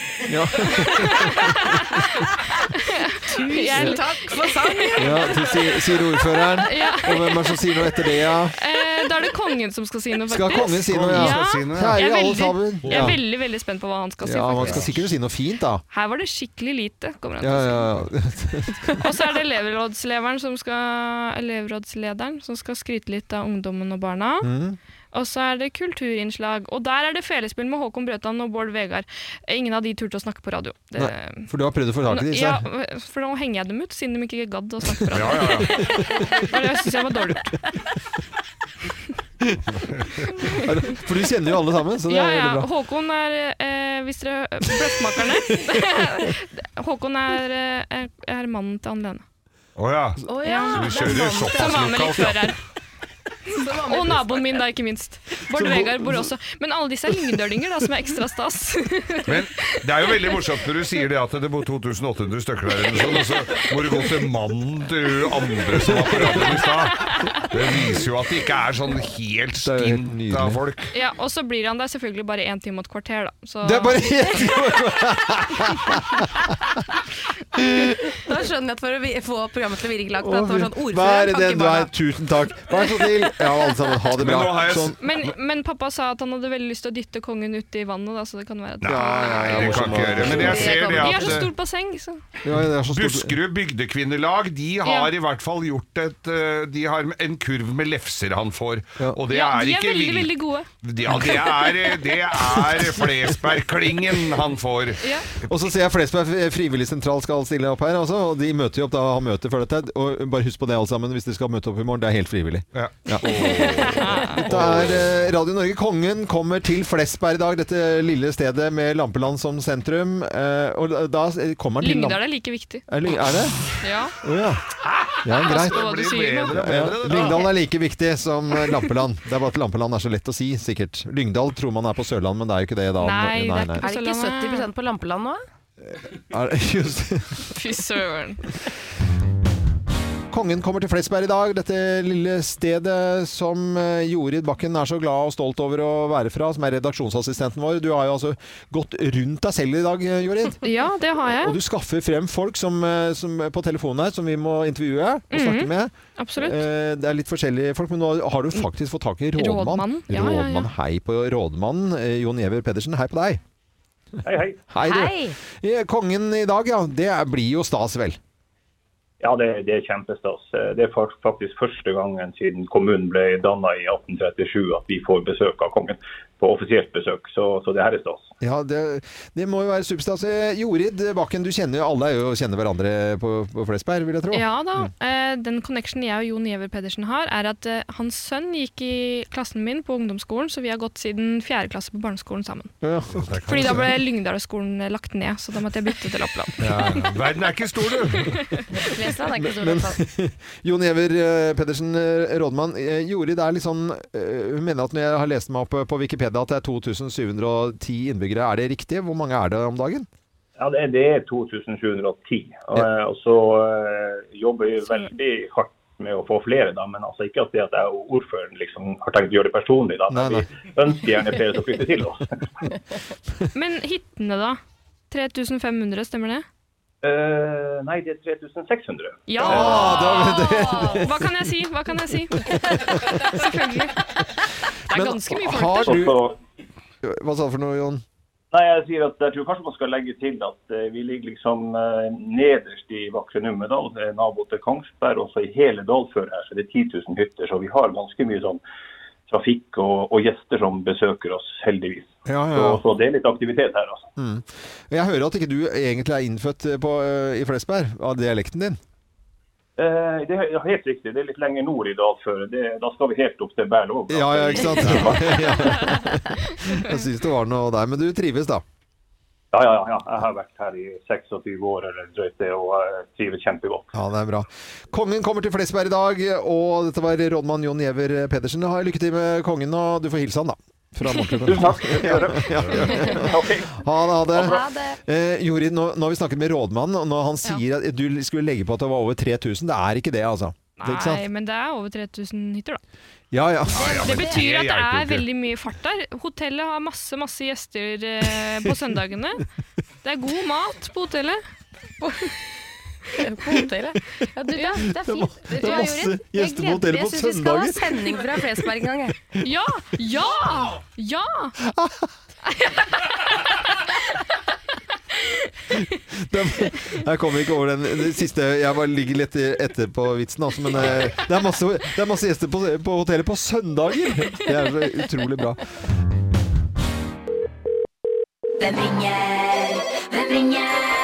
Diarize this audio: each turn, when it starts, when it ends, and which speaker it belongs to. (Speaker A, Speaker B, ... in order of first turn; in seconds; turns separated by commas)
Speaker A: 0.3-1.8, Speaker B: 0.8-5.5, Speaker C: 3.3-5.7, Speaker A: 5.0-8.6, Speaker B: 6.5-7.6, Speaker B: 8.6-14.9, Speaker A: 10.3-13.2, Speaker D: 10.9-12.0, Speaker D: 12.8-13.2, Speaker A: 14.2-15.8, Speaker D: 14.6-15.1, Speaker B: 15.9-17.9, Speaker A: 17.4-19.2, Speaker B: 19.0-24.5, Speaker A: 24.4-24.8, Speaker B: 25.1-31.5, Speaker A: 31.0-32.6, Speaker B: 32.1-37.5, Speaker D: 35.1-35.7, Speaker D: 39.8-40.3, Speaker A: 40.5-42.7, Speaker B: 42.1-49.2, Speaker A: 45.3-45.6, Speaker D: 49.8-52.5, Speaker C: 50.3-52.0, Speaker B: 50.4-52.6, Speaker C: 53.5-54.5, Speaker B: 53.7-59.8, Speaker A: 55.5-56.3, Speaker D: 59.3-70.9, Speaker A: 65.8-66.4, Speaker B: 67.1-67.4, Speaker A: 69.6-70.6, Speaker B: 70.9-74.7, Speaker A: 73.6-76.5, Speaker A: 77.6-78.0, Speaker C: 78.1-81.9, Speaker A: 80.2-85.0, Speaker D: 84.2-85.1, Speaker B: 85.0-90.0, Speaker D: 88.8-91.5, Speaker A: 88.8-91.4, Speaker C: 90.1-91.1, Speaker B: 90.9-92.2, Speaker A: 92.4-93.4, Speaker D: 92.9-105.5, Speaker B: 94.8-95.1, Speaker B: 99.3-100.7, Speaker B: 105.0-105.3, Speaker A: 105.5-122.2, Speaker D: 112.7-115.1, Speaker B: 113.3-114.5, Speaker B: 121.8-122.8, Speaker A: 122.9-124.7, Speaker B: 123.8-124.2, Speaker D: 124.8-127.5, Speaker A: 125.2-125.8, Speaker B: 125.4-126.6, Speaker A: 126.5-133.8, Speaker B: 133.0-134.7, Speaker C: 133.8-135.4, Speaker A: 135.9-137.5, Speaker B: 137.4-138.5, Speaker A: 140.3-150.7, Speaker B: 150.6-151.6, Speaker A: 151.3-163.4, Speaker B: 155.3-156.6, Speaker B: 159.4-160.7, Speaker E: 164.2-164.6, Speaker A: 164.7-168.2, Speaker C: 164.8-165.4, Speaker E: 169.2-178.3, Speaker A: 178.4-184.9, Speaker B: 184.3-192.7, Speaker A: 192.8-193.9, Speaker D: 193.1-193.9, Speaker B: 193.5-197.1, Speaker D: 196.6-198.4, Speaker B: 198.1-198.7, Speaker C: 198.8-200.0, Speaker A: 199.4-210.1, Speaker E: 210.6-222.3, Speaker A: 220.1-220.4, Speaker B: 223.5-226.4, Speaker E: 227.0-230.0, Speaker B: 229.3-234.1, Speaker A: 229.4-231.4, Speaker A: 232.3-233.4, Speaker B: 234.9-236.1, Speaker A: 234.9-236.2, Speaker E: 235.8-236.4, Speaker A: 237.0-238.0, Speaker E: 238.5-248.6, Speaker E: 249.3-254.1, Speaker A: 252.3-252.8, Speaker A: 254.2-258.8, Speaker E: 259.8-266.0, Speaker A: 264.1-268.6, Speaker E: 269.5-273.9, Speaker A: 273.9-291.3, Speaker E: 281.4-284.6, Speaker D: 282.6-282.8, Speaker C: 284.3-285.0, Speaker B: 290.8-292.8, Speaker A: 293.3-294.0, Speaker D: 293.7-295.2, Speaker C: 293.8-294.4, Speaker B: 293.9-299.4, Speaker B: 300.0-301.4, Speaker C: 303.1-309.2, Speaker B: 304.5-304.9, Speaker A: 304.9-308.6, Speaker B: 305.6-305.9, Speaker B: 309.4-311.5, Speaker A: 311.6-312.1, Speaker B: 312.5-313.6, Speaker B: 315.1-315.7, Speaker A: 315.7-325.6, Speaker C: 328.6-330.9